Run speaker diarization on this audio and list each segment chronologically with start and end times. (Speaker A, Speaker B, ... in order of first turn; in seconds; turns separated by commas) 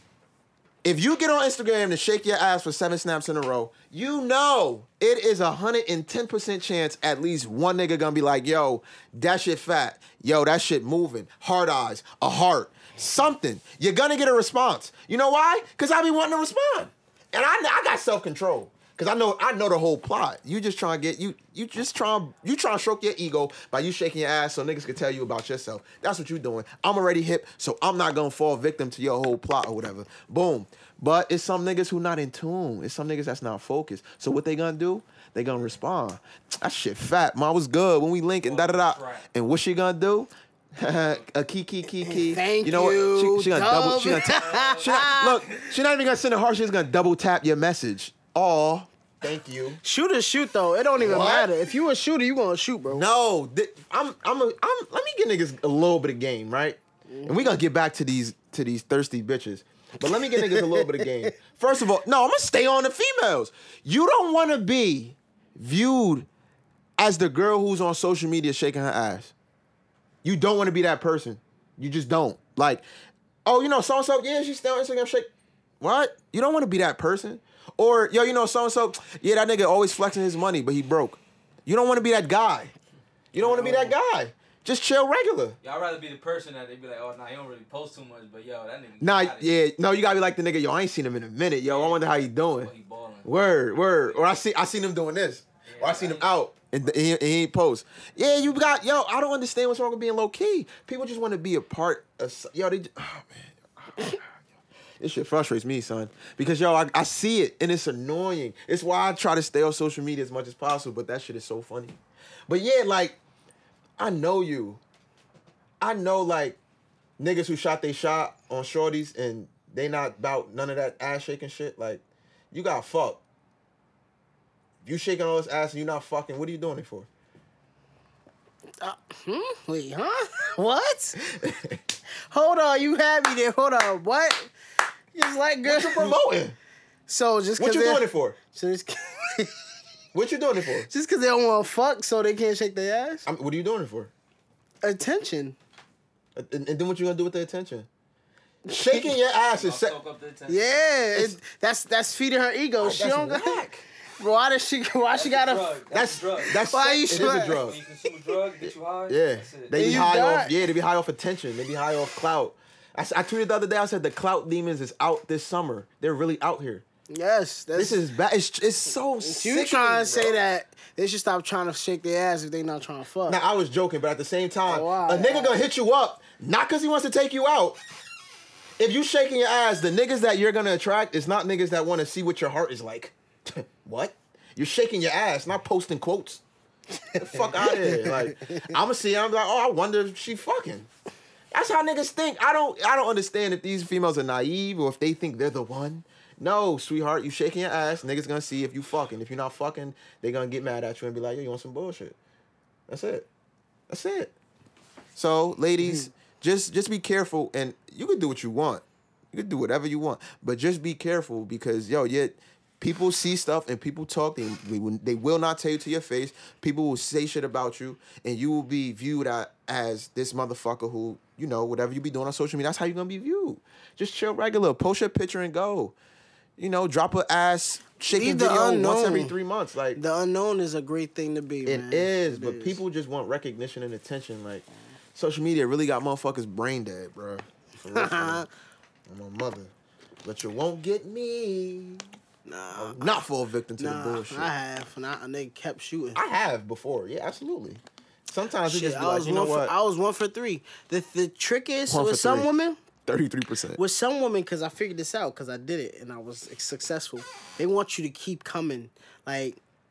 Speaker A: 0.8-49.8, Speaker B: 38.4-39.3, Speaker B: 40.8-41.2, Speaker C: 42.0-45.5, Speaker B: 44.1-45.7, Speaker C: 49.8-53.1, Speaker A: 51.0-51.5, Speaker A: 52.9-66.3, Speaker C: 57.1-57.6, Speaker C: 60.2-61.3, Speaker A: 67.0-69.3, Speaker A: 70.2-72.8, Speaker A: 73.5-82.7, Speaker A: 83.3-85.6, Speaker B: 83.4-83.9, Speaker B: 85.6-89.6, Speaker A: 89.0-92.7, Speaker B: 91.6-93.3, Speaker A: 93.2-104.3, Speaker B: 93.9-94.3, Speaker B: 95.7-96.3, Speaker A: 105.0-113.2, Speaker A: 114.0-114.8, Speaker A: 115.8-116.6, Speaker A: 117.2-123.2, Speaker A: 124.8-127.1, Speaker C: 128.8-131.2, Speaker A: 131.2-131.8, Speaker C: 132.3-134.5, Speaker C: 135.1-136.2, Speaker A: 135.6-136.6, Speaker C: 137.1-139.6, Speaker A: 137.6-138.4, Speaker A: 140.1-140.9, Speaker C: 140.9-143.3, Speaker A: 143.3-144.1, Speaker C: 144.8-145.6, Speaker A: 146.3-147.9, Speaker C: 148.7-149.1, Speaker A: 148.7-150.0, Speaker B: 149.5-151.1, Speaker C: 150.5-153.6, Speaker A: 152.8-153.8, Speaker C: 154.2-155.8, Speaker B: 155.2-160.2, Speaker A: 155.9-157.8, Speaker C: 156.7-157.6, Speaker A: 159.1-166.8, Speaker C: 159.7-160.6, Speaker C: 167.1-168.0, Speaker A: 167.8-170.4, Speaker C: 169.2-173.4, Speaker A: 173.3-177.8, Speaker C: 174.7-175.6, Speaker A: 178.8-186.4, Speaker A: 187.2-190.9, Speaker C: 187.2-188.7, Speaker A: 191.5-202.2, Speaker A: 202.9-203.3, Speaker A: 203.9-204.3, Speaker A: 205.2-225.9, Speaker A: 226.6-230.0, Speaker C: 228.1-229.3, Speaker C: 230.0-232.8, Speaker A: 231.7-238.5, Speaker C: 237.9-238.5, Speaker A: 239.1-239.7, Speaker A: 240.2-242.1, Speaker C: 242.5-243.2, Speaker A: 242.8-244.5, Speaker C: 243.8-246.2, Speaker A: 246.2-249.8, Speaker C: 248.7-252.8, Speaker A: 251.9-252.5, Speaker A: 253.1-253.8, Speaker C: 253.8-259.6